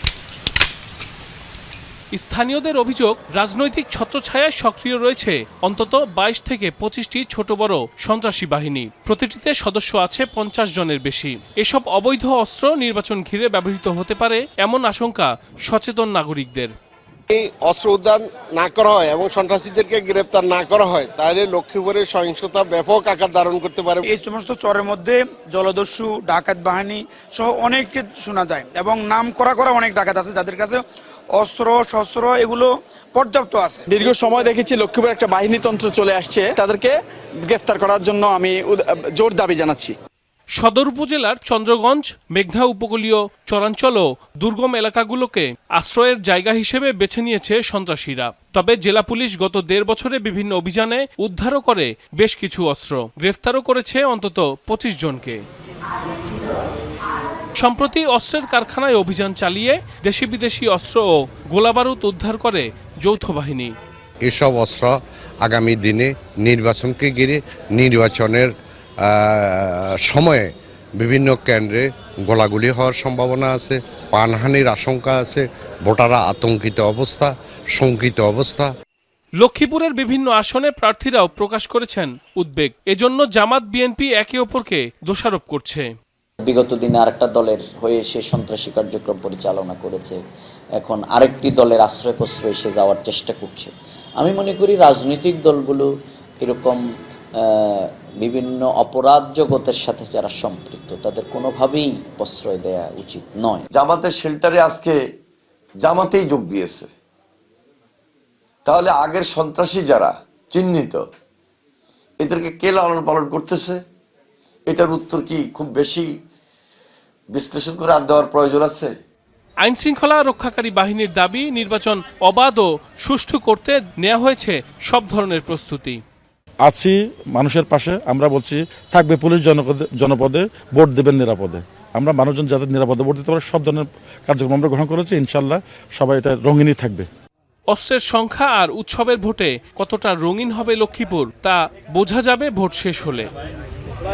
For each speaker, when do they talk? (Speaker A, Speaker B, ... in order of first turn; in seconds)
Speaker A: 2.1-16.7, 40.6-55.4, 57.6-63.7, 79.4-85.9, 119.6-126.0, 137.7-143.3
Speaker B: 17.3-24.0
Speaker C: 24.1-33.8
Speaker D: 33.9-36.9, 37.5-40.0
Speaker E: 64.2-78.7
Speaker F: 86.4-90.2, 90.8-95.9, 96.4-96.8, 97.4-103.7
Speaker G: 103.8-105.0, 105.8-106.9, 108.7-111.0, 112.2-113.8, 114.7-116.1, 117.3-118.9
Speaker H: 126.7-137.1